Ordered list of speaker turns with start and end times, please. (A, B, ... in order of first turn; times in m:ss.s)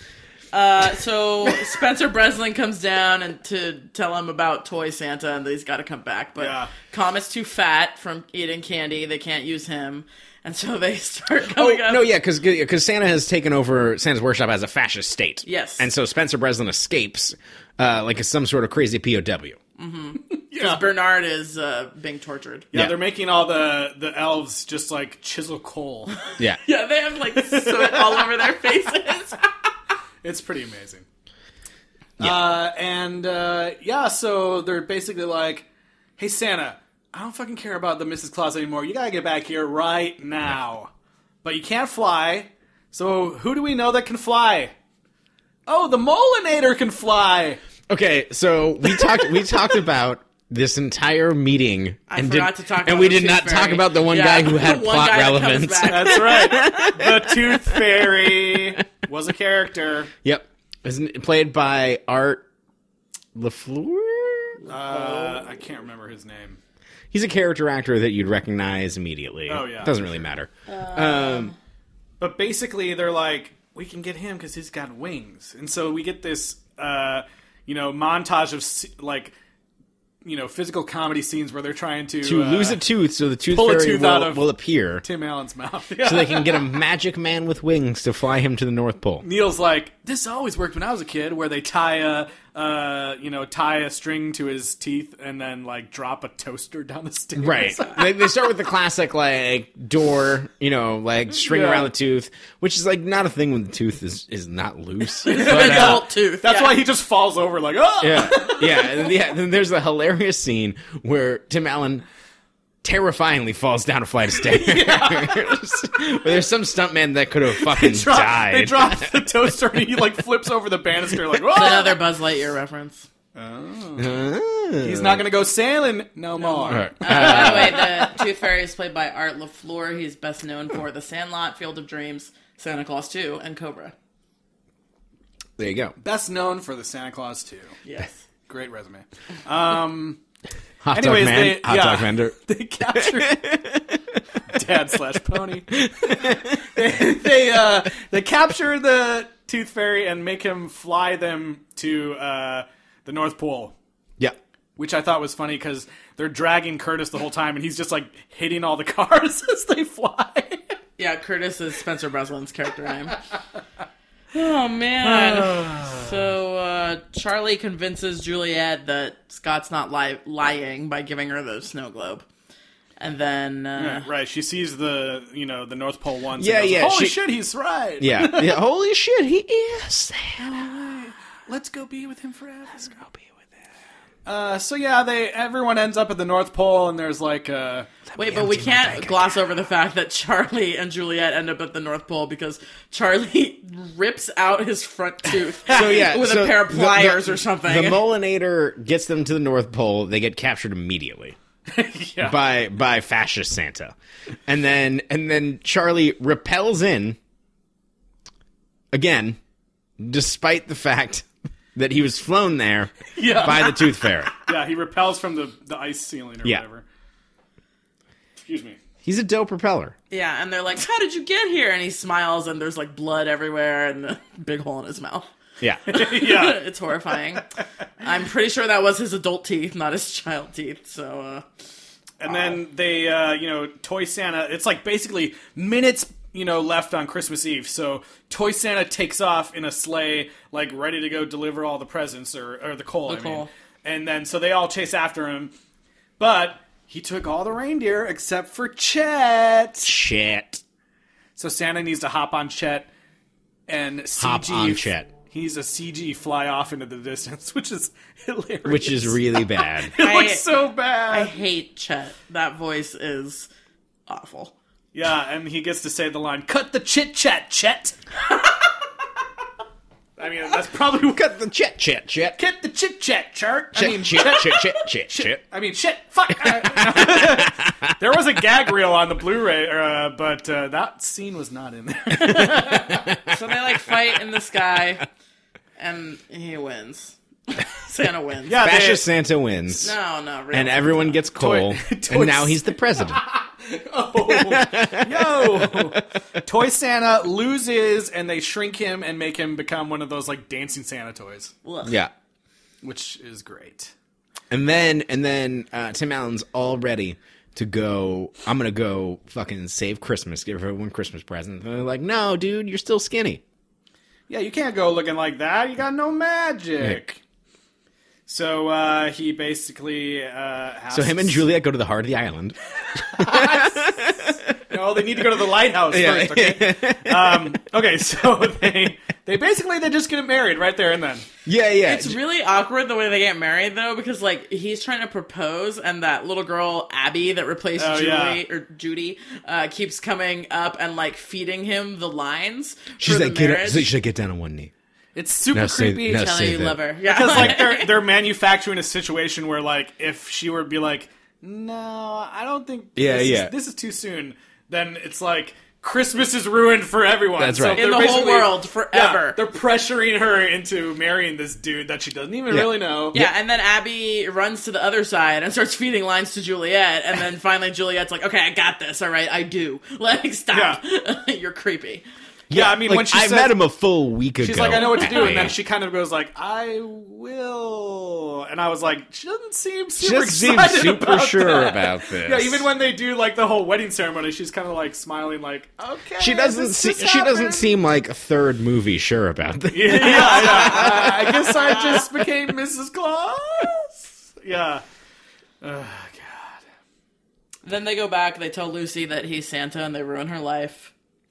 0:00.5-0:12.1 A
0:06.4-0:06.7 B
0:11.5-0:19.6 C
0:15.4-0:15.9 A
0:19.8-0:22.7 A
0:20.5-0:20.8 B
0:22.7-0:26.2 B
0:22.7-0:23.0 C
0:26.6-0:29.4 A
0:27.4-0:28.3 B
0:30.2-0:31.0 B
0:32.2-0:35.6 B
0:36.2-0:40.9 B
0:41.4-0:44.7 B
0:45.7-0:47.6 B
0:47.9-0:58.6 C
0:52.1-0:56.9 A
0:55.9-1:00.1 B
1:00.2-1:02.4 C
1:03.3-1:04.6 C
1:04.6-1:05.5 A
1:04.7-1:06.6 B
1:07.1-1:11.5 C
1:09.5-1:10.0 B
1:10.7-1:11.5 A
1:12.2-1:19.3 B
1:20.2-1:22.8 B
1:22.2-1:25.0 C
1:23.5-1:24.5 B
1:25.0-1:26.8 B
1:26.0-1:29.2 C
1:29.2-1:38.1 B
1:37.4-1:46.0 C
1:41.4-1:41.9 B
1:45.2-1:46.8 A
1:45.2-1:49.1 B
1:48.0-1:52.0 C
1:52.8-1:59.5 C
1:54.4-1:55.5 B
1:57.6-2:02.0 B
2:01.5-2:03.1 A
2:03.3-2:04.2 B
2:04.0-2:05.3 C
2:04.8-2:08.2 B
2:06.4-2:13.9 A
2:06.7-2:07.9 C
2:15.6-2:15.9 C
2:16.0-2:17.8 B
2:17.8-2:18.2 A
2:18.5-2:20.2 B
2:20.8-2:24.2 C
2:20.9-2:23.6 B
2:24.5-2:33.7 B
2:25.8-2:26.6 C
2:34.8-2:40.6 B
2:41.0-2:43.2 A
2:44.3-2:52.2 A
2:45.0-2:46.1 B
2:53.0-2:54.1 A
2:53.8-2:58.6 B
2:56.4-2:57.2 C
2:58.0-3:01.0 C
3:00.4-3:03.0 B
3:02.8-3:03.2 C
3:04.2-3:07.9 B
3:08.1-3:09.3 C
3:08.2-3:18.0 A
3:15.7-3:21.4 C
3:21.7-3:22.4 B
3:22.2-3:24.0 C
3:24.5-3:27.2 C
3:28.9-3:29.4 C
3:30.0-3:34.3 C
3:33.1-3:36.8 B
3:38.4-3:38.8 B
3:39.0-3:39.9 C
3:40.1-3:45.3 A
3:45.9-3:46.6 B
3:45.9-3:47.4 A
3:48.0-3:51.4 A
3:52.2-4:05.5 B
4:03.1-4:03.5 A
4:06.2-4:09.9 B
4:09.8-4:10.6 C
4:11.4-4:12.9 B
4:13.7-4:21.3 B
4:14.2-4:15.1 C
4:18.6-4:19.9 C
4:20.0-4:20.4 A
4:21.1-4:23.5 A
4:24.1-4:24.5 A
4:24.9-4:28.0 B
4:30.2-4:31.3 B
4:31.1-4:32.4 C
4:32.4-4:43.0 B
4:33.7-4:35.4 C
4:36.4-4:37.9 C
4:42.3-4:43.3 C
4:43.2-4:45.0 A
4:45.8-4:48.6 A
4:48.5-4:49.0 B
4:48.6-4:50.0 C
4:49.7-4:51.2 A
4:50.5-4:53.2 C
4:51.4-5:01.5 B
4:54.2-4:56.0 C
5:01.6-5:02.0 A
5:01.8-5:02.1 C
5:02.8-5:03.9 B
5:04.5-5:13.4 C
5:14.3-5:17.2 B
5:16.8-5:17.1 C
5:18.3-5:21.4 B
5:20.9-5:22.6 C
5:23.1-5:24.5 C
5:23.1-5:24.1 B
5:24.7-5:31.3 B
5:25.9-5:27.6 C
5:31.4-5:32.2 C
5:31.8-5:43.9 A
5:37.8-5:38.4 B
5:43.0-5:44.7 C
5:45.1-5:46.4 B
5:45.5-5:46.8 C
5:46.1-5:47.9 A
5:47.0-6:03.2 B
5:47.3-5:47.6 C
5:53.0-5:53.5 C
5:57.4-5:58.1 C
5:57.7-5:59.4 A
6:02.5-6:03.3 C
6:03.1-6:12.0 A
6:10.5-6:10.8 B
6:12.5-6:15.6 C
6:12.5-6:13.6 B
6:14.4-6:27.7 B
6:14.8-6:15.5 A
6:20.0-6:22.7 C
6:26.2-6:31.9 C
6:29.7-6:34.8 B
6:30.2-6:31.1 A
6:35.6-6:36.6 B
6:37.6-6:40.9 A